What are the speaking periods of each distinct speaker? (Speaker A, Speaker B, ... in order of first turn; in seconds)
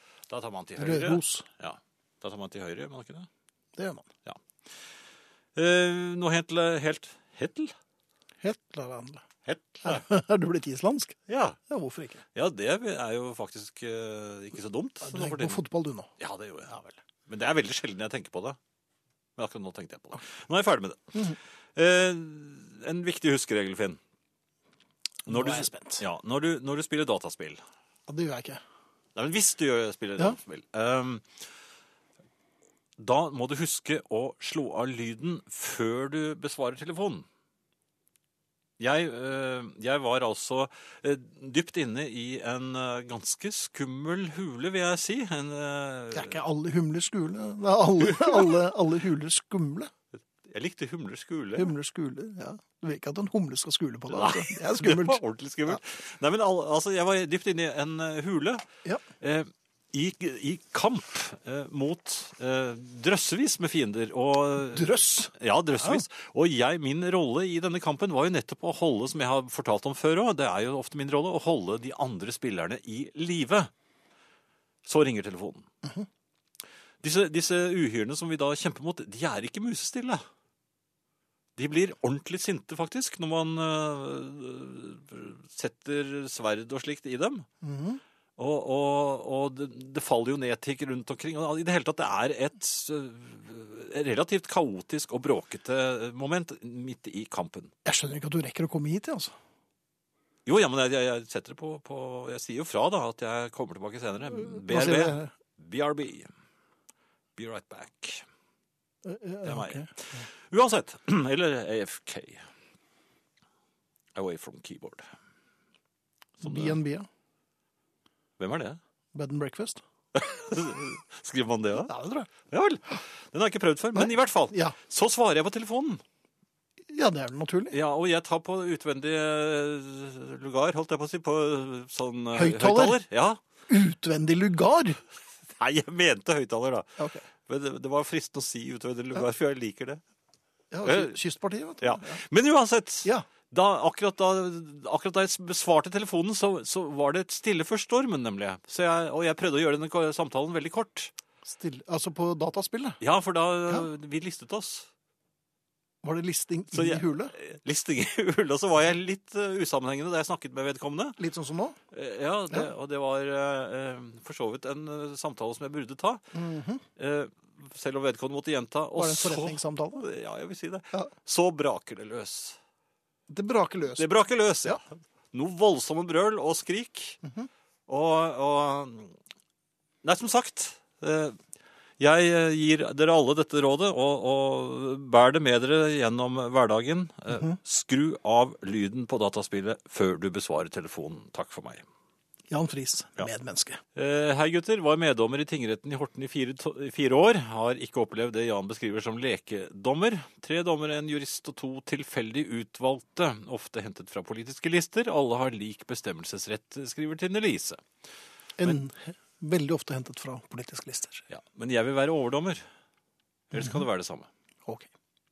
Speaker A: 0.3-3.3, 5.5-7.7, 9.4-10.0, 11.3-11.6, 12.3-15.6, 16.2-18.6, 19.4-21.2, 21.8-24.0, 25.3-27.6, 29.1-31.3, 33.0-37.2, 38.8-46.4, 48.0-48.5, 50.5-51.7, 54.1-58.6, 59.2-73.7, 74.8-75.7, 77.0-80.2, 81.5-87.5, 88.4-97.7, 100.5-106.3, 107.4-108.2, 109.4-109.8, 110.5-112.4, 114.1-115.1, 116.4-116.8, 118.4-118.8, 120.1-121.9, 122.5-126.0, 127.7-133.4, 135.5-136.9, 137.4-140.0, 140.8-141.1, 141.8-151.1, 153.0-154.9, 156.7-161.2, 161.9-166.2, 167.0-172.6, 174.0-177.2, 177.9-179.1, 180.0-181.4, 182.0-191.8, 193.9-207.8, 211.3-212.6, 213.5-214.3
Speaker B: 0.8-1.4, 3.8-4.1, 8.4-9.2, 9.8-11.2, 11.7-12.2, 15.0-16.1, 25.3-26.0, 28.1-28.6, 46.1-49.9, 51.5-55.8, 64.7-65.3, 87.6-88.0, 97.8-99.3, 104.6-105.3, 109.0-110.2, 116.4-117.1, 119.1-119.8, 121.9-122.3, 124.0-124.7, 126.9-127.8, 132.3-133.0, 133.7-135.0, 137.0-137.2, 140.7-142.2, 151.4-153.0, 156.0-157.3, 161.2-161.8, 166.3-166.8, 168.9-170.0, 173.3-174.1, 192.5-193.8, 208.6-211.2